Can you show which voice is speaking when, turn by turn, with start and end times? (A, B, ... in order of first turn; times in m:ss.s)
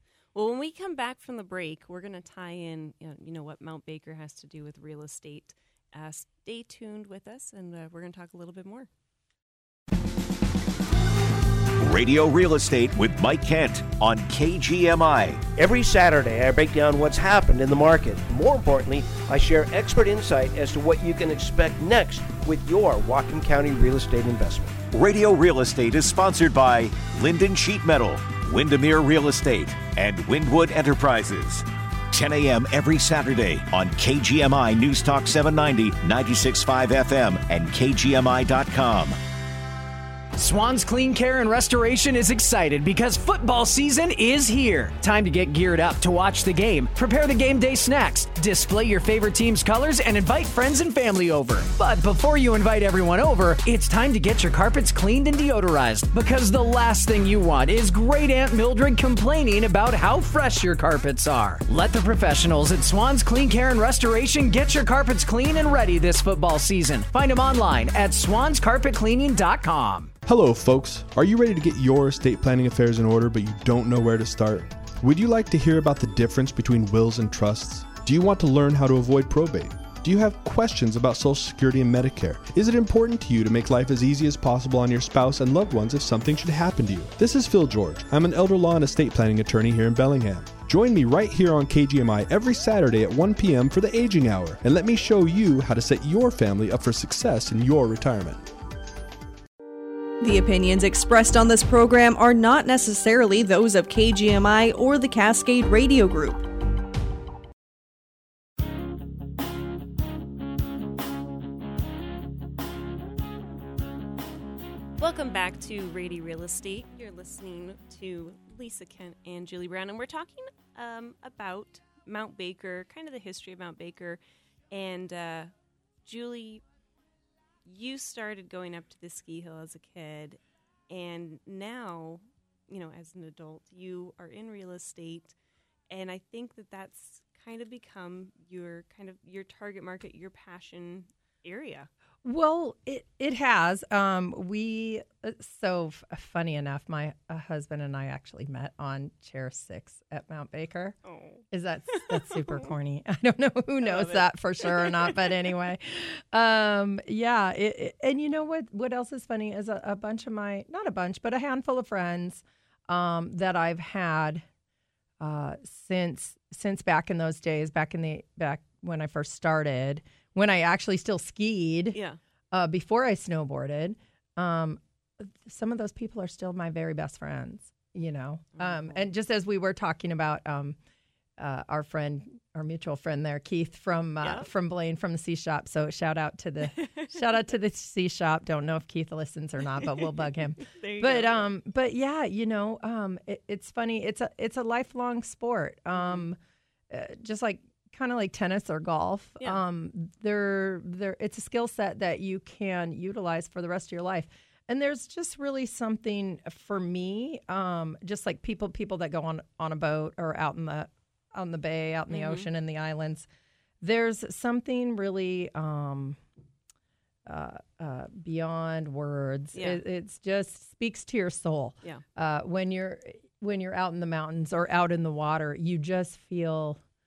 0:00.3-0:08.9 A
0:11.8-0:15.4 B
0:15.6-0:24.7 C
0:24.9-0:39.2 B
0:40.3-1:10.1 D
1:10.2-1:38.4 E
1:40.2-1:46.5 F
1:55.0-2:04.2 A
2:04.7-2:05.5 A
2:06.0-2:06.6 A
2:07.6-2:15.3 A
2:15.9-2:21.9 A
2:22.2-2:31.0 G
2:31.0-2:32.7 A
2:31.5-2:44.4 G
2:33.8-2:35.4 A
2:45.2-2:52.0 G
2:51.9-2:52.2 A
2:52.5-3:00.8 G
2:58.5-2:59.0 A
3:01.4-3:16.4 G
3:04.2-3:04.5 A
3:06.7-3:07.5 A
3:09.8-3:11.5 A
3:15.9-3:16.3 A
3:16.9-3:33.3 G
3:32.1-3:32.5 A
3:33.8-3:36.2 G
3:37.2-3:46.8 G
3:39.5-3:39.8 A